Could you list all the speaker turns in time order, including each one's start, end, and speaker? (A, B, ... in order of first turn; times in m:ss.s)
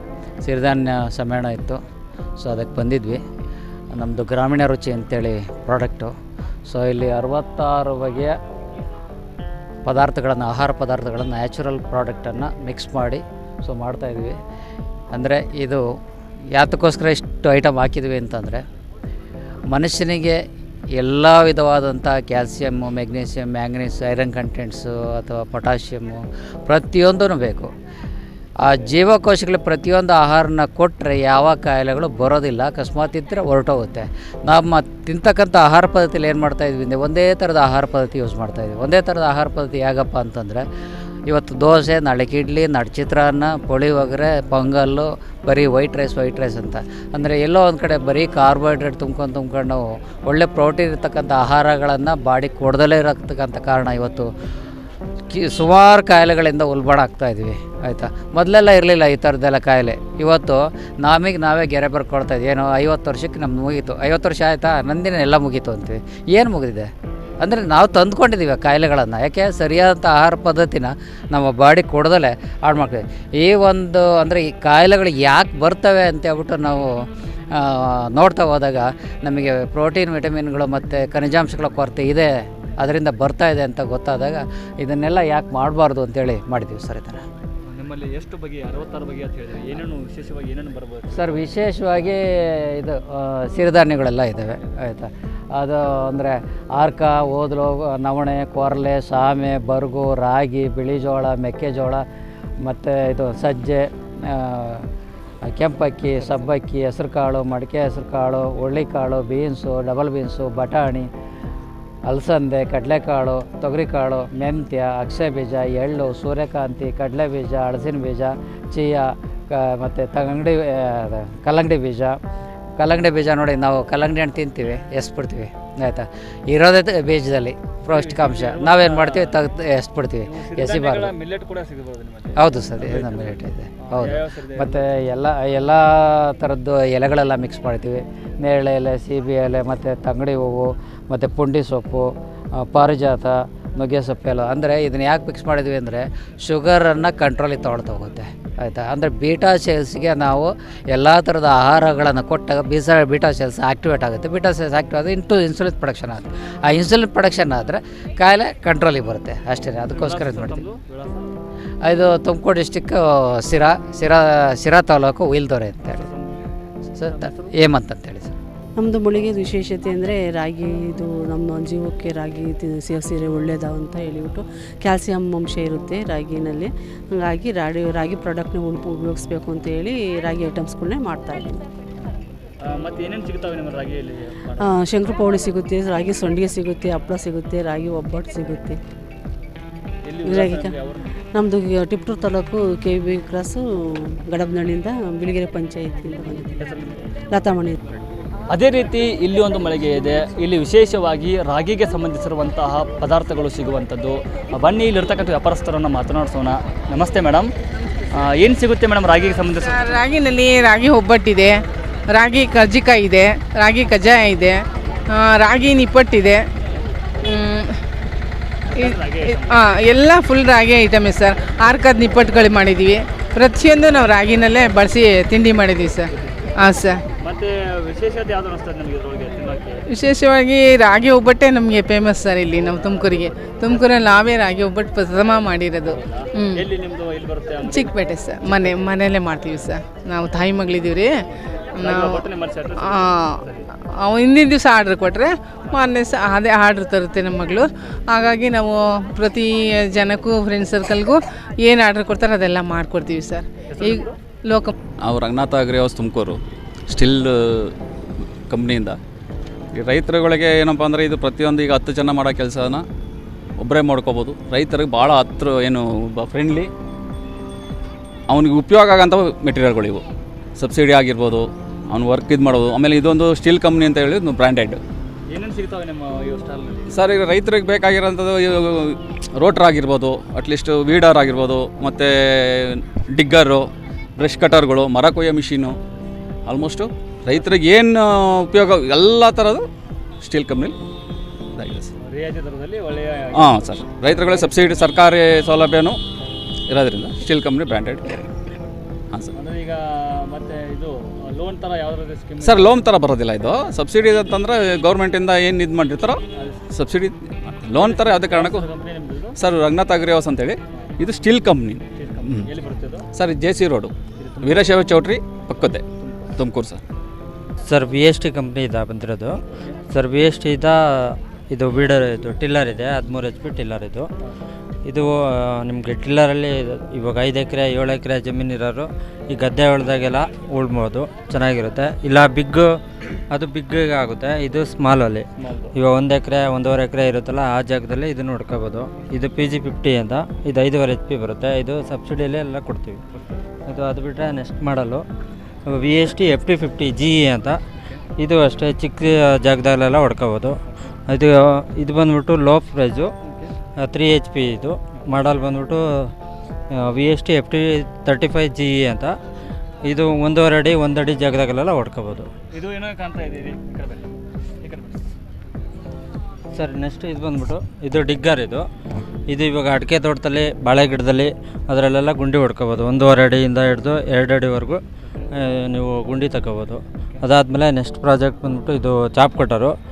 0:00.4-0:01.8 A
0:02.4-0:03.2 A
0:03.9-0:06.1 A
0:06.7-0:08.3 A
0:09.8-0:14.4 A
0:15.1-0:15.8 A
0:16.5-0:18.6 A
0:19.7-0:20.4 A
0:21.0-0:27.7 A
0:28.6-0:40.6 A
0:41.3-0:54.3 A
0:55.3-1:16.9 A
1:17.5-1:27.2 A
1:27.7-1:31.3 B
1:31.1-1:42.0 A
1:42.6-1:44.9 A
1:45.5-1:51.1 A
1:52.1-2:02.2 A
2:02.8-2:11.1 A
2:07.9-2:09.4 B
2:10.2-2:14.8 B
2:12.4-2:40.6 A
2:39.9-2:41.3 B
2:41.8-2:46.0 A
2:45.9-2:46.4 B
2:47.0-2:48.4 A
2:47.0-2:47.5 B
2:48.8-3:01.6 C
3:02.7-3:04.8 B
3:04.6-3:08.8 C
3:10.0-3:11.1 B
3:10.2-3:10.8 C
3:11.3-3:13.6 C
3:14.3-3:16.7 C
3:16.6-3:17.0 B
3:17.3-3:17.8 C
3:18.5-3:27.5 B
3:28.1-3:29.9 B
3:29.6-3:31.5 D
3:32.1-3:34.6 D
3:35.2-3:36.4 D
3:37.3-3:37.6 D
3:38.7-3:39.6 B
3:38.8-3:46.0 D
3:46.6-3:47.0 D
3:47.2-3:49.8 B
3:49.9-3:56.6 D
3:52.6-3:53.1 B
3:53.6-3:53.9 B
3:55.8-3:57.9 B
3:57.7-4:01.1 D
4:01.8-4:02.2 D
4:01.8-4:03.6 B
4:02.8-4:03.2 D
4:04.0-4:14.7 D
4:13.7-4:14.1 B
4:15.0-4:16.4 E
4:16.9-4:17.7 E
4:18.5-4:19.0 E
4:19.8-4:22.8 E
4:23.6-4:26.7 E
4:28.3-4:30.0 E
4:30.6-4:34.8 E
4:35.3-4:36.9 B
4:36.9-4:43.6 E
4:44.2-4:45.8 E
4:46.5-4:49.6 E
4:50.2-4:50.8 E
4:51.6-4:51.9 E
4:52.0-4:55.0 B
4:53.3-4:56.0 E
4:56.7-4:58.2 E
4:59.3-5:02.9 B
5:02.4-5:06.2 E
5:06.7-5:08.7 E
5:07.7-5:09.4 B
5:09.4-5:12.4 E
5:10.7-5:11.0 B
5:12.0-5:13.0 B
5:13.1-5:15.8 E
5:14.2-5:14.8 B
5:16.0-5:16.3 B
5:16.4-5:16.8 E
5:17.7-5:19.4 F
5:19.9-5:24.1 F
5:24.9-5:32.7 F
5:33.3-5:35.2 F
5:35.4-5:35.7 B
5:35.8-5:43.0 F
5:43.7-5:45.0 F
5:45.7-5:47.6 F
5:48.2-5:53.1 F
5:53.8-5:56.1 F
5:56.7-5:59.1 F
5:59.8-6:02.3 F
6:02.5-6:04.0 B
6:04.6-6:05.0 B
6:06.5-6:08.6 F
6:09.3-6:14.8 F
6:15.4-6:19.7 F